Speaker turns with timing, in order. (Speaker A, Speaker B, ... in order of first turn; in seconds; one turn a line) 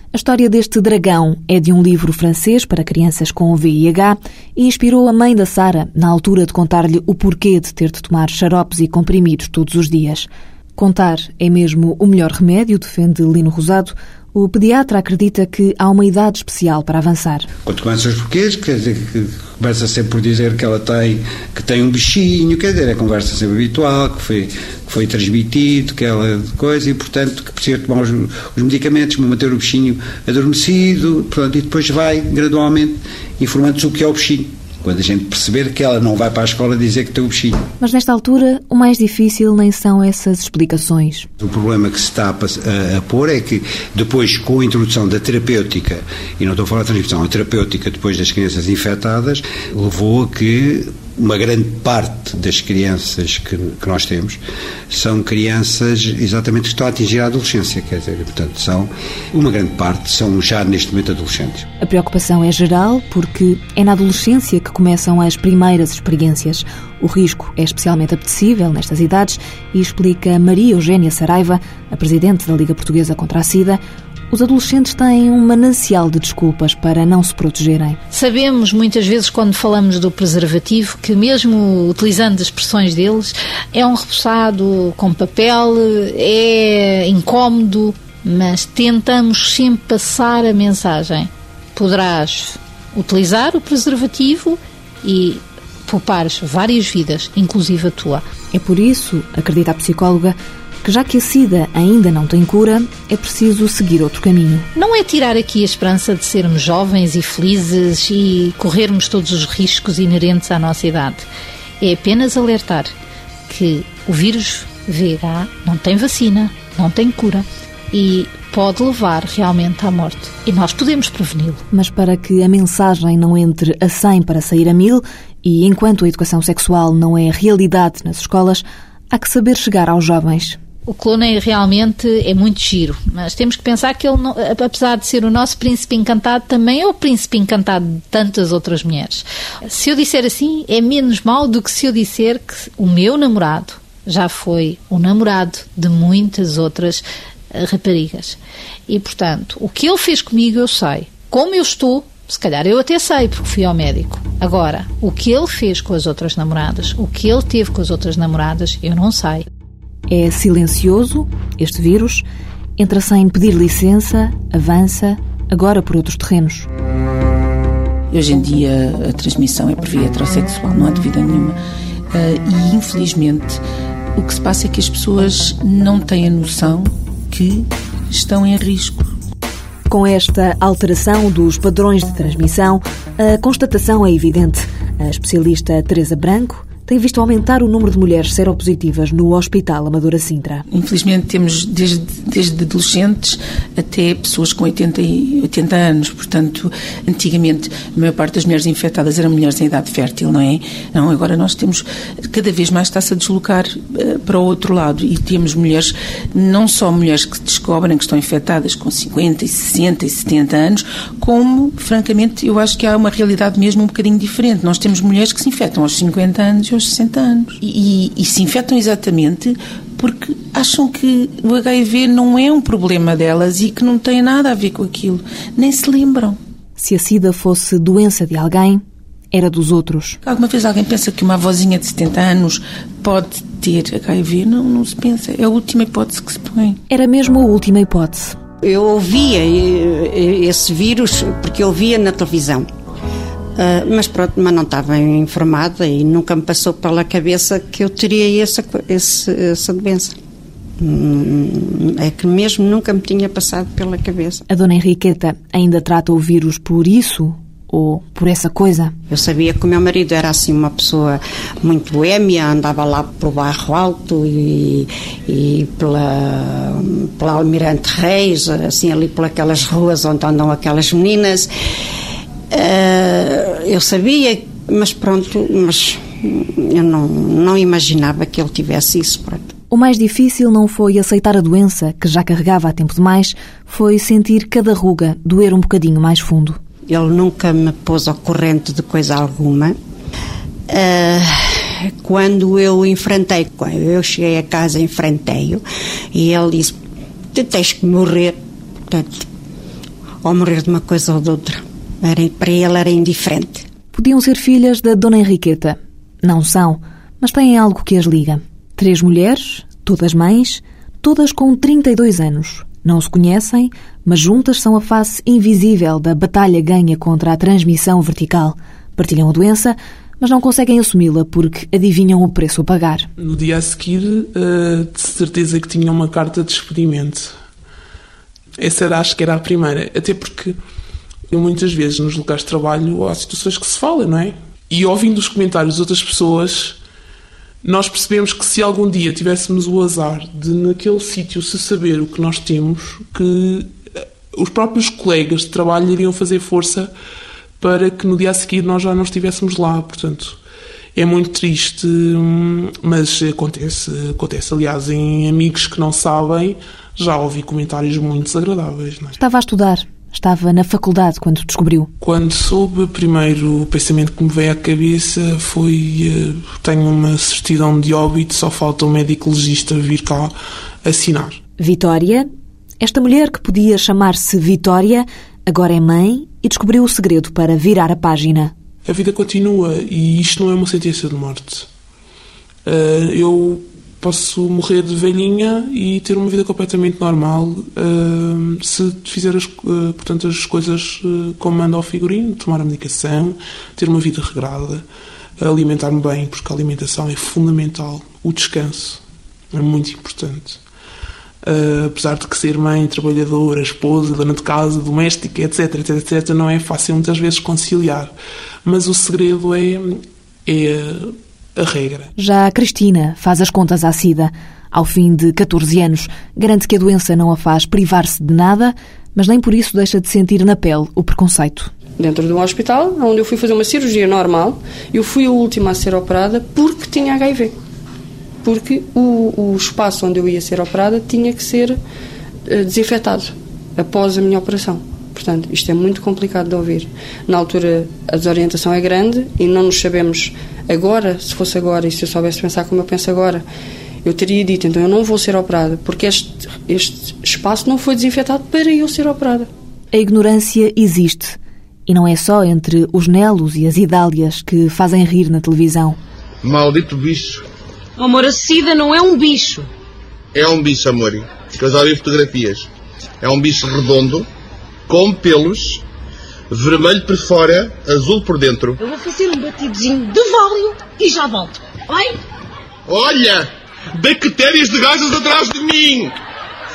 Speaker A: 0.1-17.5
Speaker B: 17.6-37.7
Speaker A: 37.8-41.3
Speaker B: 41.4-61.7
Speaker A: 61.8-78.0
Speaker C: 78.1-98.2
Speaker A: 98.5-104.7
Speaker C: 104.7-111.3
Speaker C: 111.8-112.9
Speaker C: 113.5-121.6
Speaker A: 121.7-130.6
Speaker C: 130.9-159.4
Speaker A: 160.1-166.7
Speaker D: 168.1-171.6
Speaker D: 172.1-173.6
Speaker D: 174.1-179.1
Speaker A: 179.9-190.6
Speaker D: 190.7-226.4
Speaker A: 226.8-230.2
Speaker D: 230.2-236.8
Speaker A: 236.9-238.4
Speaker E: 238.6-242.7
Speaker E: 243.6-250.1
Speaker E: 250.8-254.4
Speaker A: 254.5-258.9
Speaker E: 259.1-271.5
Speaker E: 272.5-279.5
Speaker A: 279.7-286.6
Speaker E: 286.9-289.8
Speaker E: 290.7-296.8
Speaker E: 297.3-299.2
Speaker E: 300.2-303.6
Speaker A: 303.9-323.1
Speaker F: 323.2-327.4
Speaker F: 328.6-330.6
Speaker F: 331.3-336.8
Speaker F: 337.6-346.9
Speaker F: 347.6-350.4
Speaker F: 350.9-359.2
Speaker A: 359.2-361.9
Speaker F: 362.0-370.3
Speaker F: 370.8-371.4
Speaker A: 371.6-372.3
Speaker A: 372.8-378.5
Speaker F: 378.8-381.7
Speaker F: 382.6-394.8
Speaker F: 395.4-399.0
Speaker F: 399.5-400.6
Speaker F: 401.4-408.1
Speaker F: 408.6-412.1
Speaker A: 412.2-421.7
Speaker G: 422.0-427.5
Speaker G: 428.4-431.8
Speaker G: 432.4-443.4
Speaker G: 444.0-449.5
Speaker A: 449.9-456.0
Speaker H: 456.4-457.4
Speaker I: 458.0-459.7
Speaker H: 460.3-462.6
Speaker H: 463.2-464.2
Speaker H: 464.9-465.8
Speaker H: 466.5-468.8
Speaker I: 468.8-472.1
Speaker H: 472.9-473.4
Speaker H: 474.0-476.1